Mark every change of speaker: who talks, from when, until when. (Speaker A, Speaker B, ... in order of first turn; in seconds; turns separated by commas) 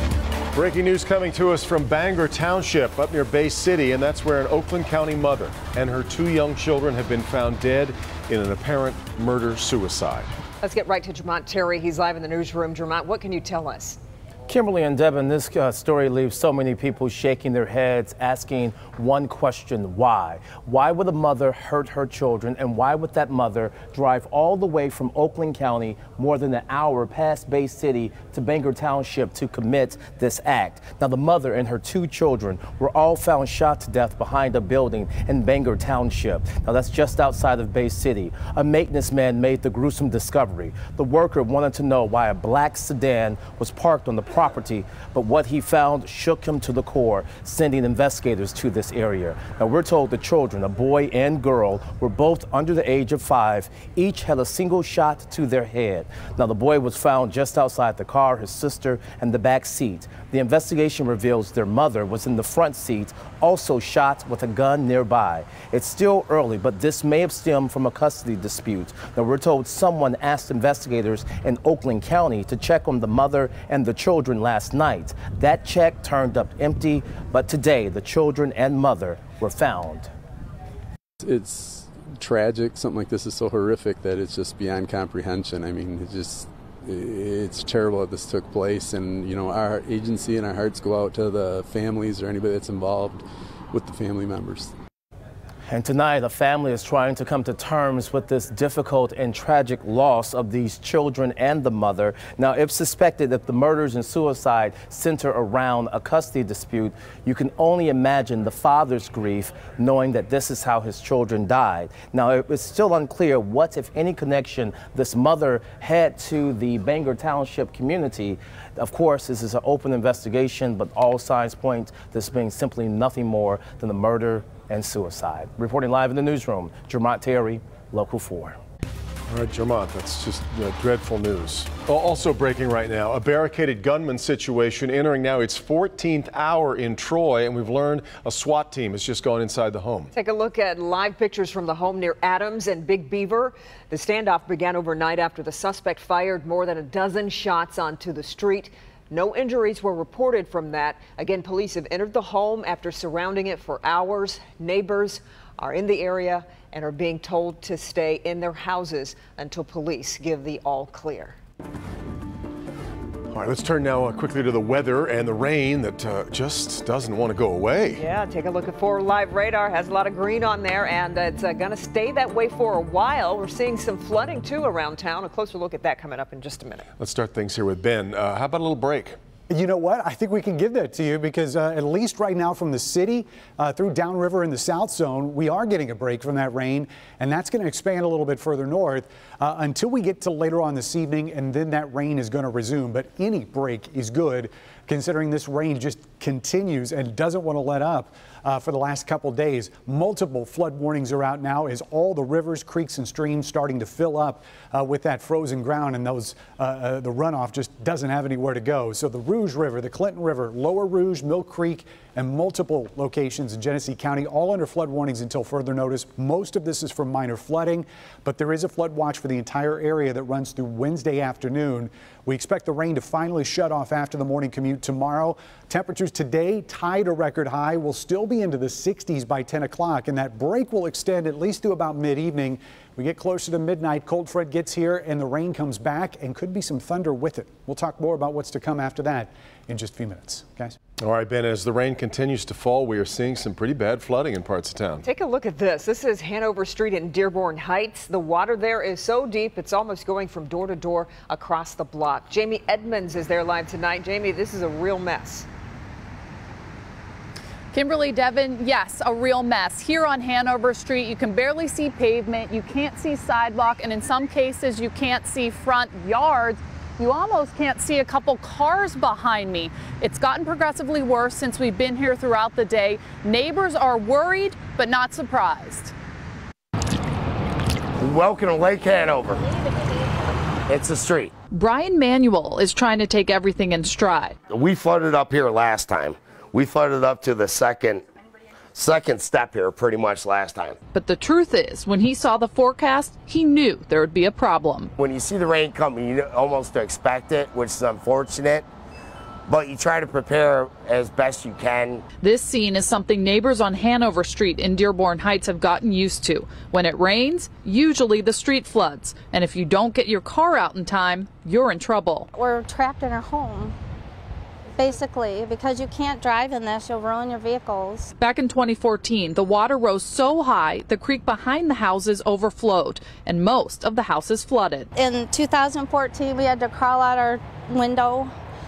Speaker A: 0.5-10.3, Speaker B: 10.6-14.0, Speaker C: 14.5-80.1, Speaker D: 81.2-94.7, Speaker C: 95.7-128.6, Speaker A: 129.3-140.1, Speaker B: 140.1-161.4, Speaker A: 163.3-168.0, Speaker B: 168.0-176.9, Speaker A: 177.0-179.2, Speaker E: 179.5-240.8, Speaker A: 241.0-245.1, Speaker B: 245.1-255.5, Speaker F: 257.7-275.9, Speaker G: 278.0-279.5, Speaker G: 280.7-281.3, Speaker F: 281.5-284.4, Speaker G: 284.5-288.1, Speaker G: 288.8-290.8, Speaker F: 290.9-294.9, Speaker G: 295.0-298.7, Speaker G: 299.5-302.1, Speaker F: 302.2-312.3, Speaker H: 312.3-313.7, Speaker H: 314.8-318.1, Speaker F: 318.2-324.9, Speaker H: 324.9-328.3